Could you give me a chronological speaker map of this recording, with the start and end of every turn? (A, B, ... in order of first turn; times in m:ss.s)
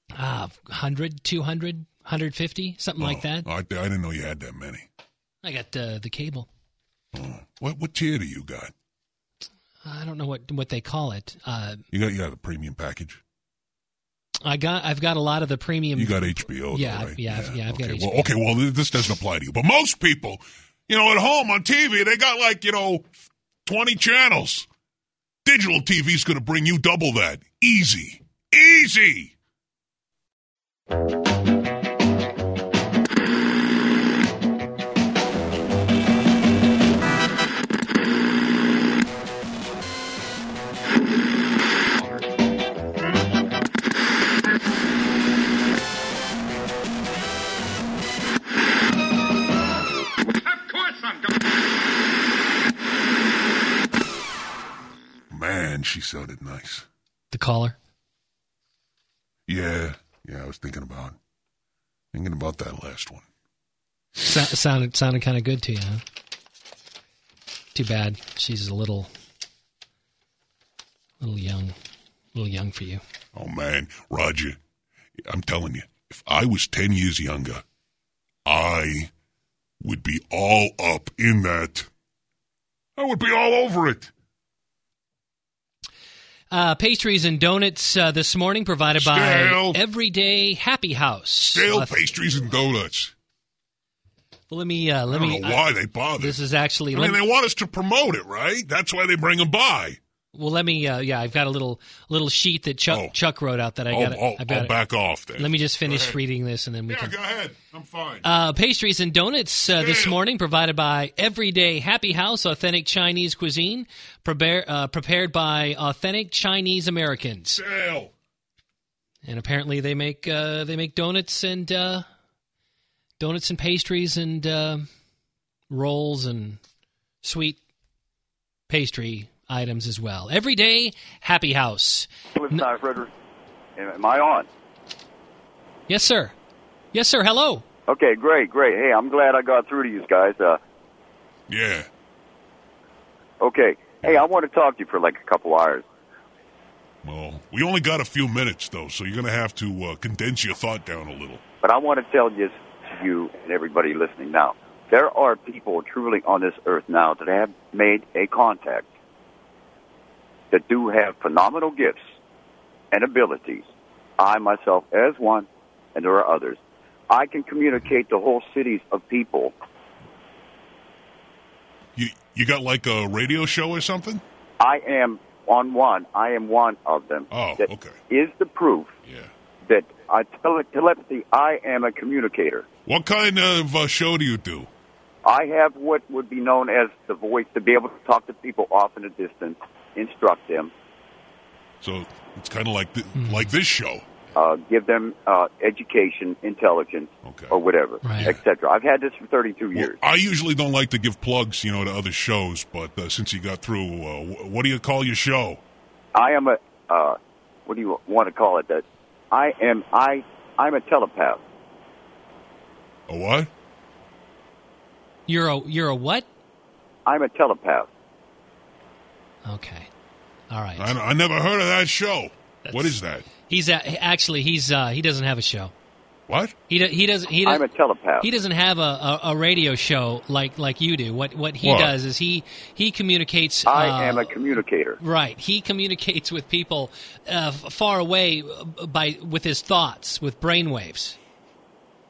0:00.2-0:03.5 A
0:03.0-0:04.9 B
0:05.4-0:06.5 A
0:07.1-0:08.7 B
0:09.8-0:11.8 A
0:11.9-0:13.2 B
0:14.4-0:18.3 A
0:16.0-0:23.1 B
0:23.6-0:24.7 B
0:25.4-0:29.4 B
0:55.3-0:56.9 B
0:57.3-0:57.8 A
0:59.5-1:01.2 B
1:02.1-1:03.3 B
1:04.2-1:06.0 A
1:07.8-1:09.1 A
1:11.2-1:11.8 A
1:12.3-1:13.0 A
1:13.4-1:14.6 B
1:15.2-1:17.6 B
1:18.4-1:19.1 B
1:19.8-1:21.9 B
1:23.0-1:24.1 B
1:26.5-1:32.0 A
1:29.0-1:29.8 B
1:31.5-1:33.1 B
1:34.5-1:35.6 A
1:35.1-1:36.4 B
1:36.2-1:37.2 A
1:36.9-1:40.0 B
1:40.3-1:44.8 A
1:42.9-1:43.2 B
1:43.9-1:46.2 B
1:45.4-1:47.1 A
1:46.9-1:48.3 B
1:48.2-1:57.6 A
1:49.7-1:50.2 B
1:57.5-1:58.1 B
1:59.2-2:02.1 A
2:03.2-2:04.9 A
2:05.7-2:06.6 A
2:07.2-2:07.6 A
2:08.7-2:12.6 A
2:12.4-2:13.1 C
2:13.8-2:14.5 C
2:15.9-2:16.4 A
2:16.9-2:17.6 A
2:17.9-2:20.6 C
2:21.5-2:21.9 B
2:23.4-2:25.8 C
2:27.0-2:31.4 B
2:31.6-2:38.9 C
2:40.5-2:42.0 C
2:42.9-2:43.6 C
2:44.2-2:46.6 C
2:47.1-2:49.5 C
2:52.0-2:54.2 B
2:54.6-2:58.9 C
2:57.3-2:58.0 B
2:59.1-2:59.3 B
2:59.7-3:02.7 C
3:02.9-3:04.7 B
3:05.2-3:10.7 C
3:11.8-3:14.1 B
3:13.2-3:13.5 A
3:14.4-3:20.0 C
3:17.2-3:17.6 B
3:18.0-3:18.4 A
3:19.8-3:25.6 B
3:26.2-3:31.4 C
3:33.1-3:33.5 B
3:35.3-3:36.3 A
3:37.1-3:37.9 C
3:39.4-3:39.9 A
3:40.5-3:40.9 A
3:40.8-3:43.3 B
3:42.6-3:45.7 A
3:46.3-3:46.6 B
3:46.7-3:47.6 A
3:47.4-3:48.3 C
3:48.2-3:54.4 A
3:51.6-3:51.9 B
3:53.7-3:55.0 C
3:55.0-4:01.2 A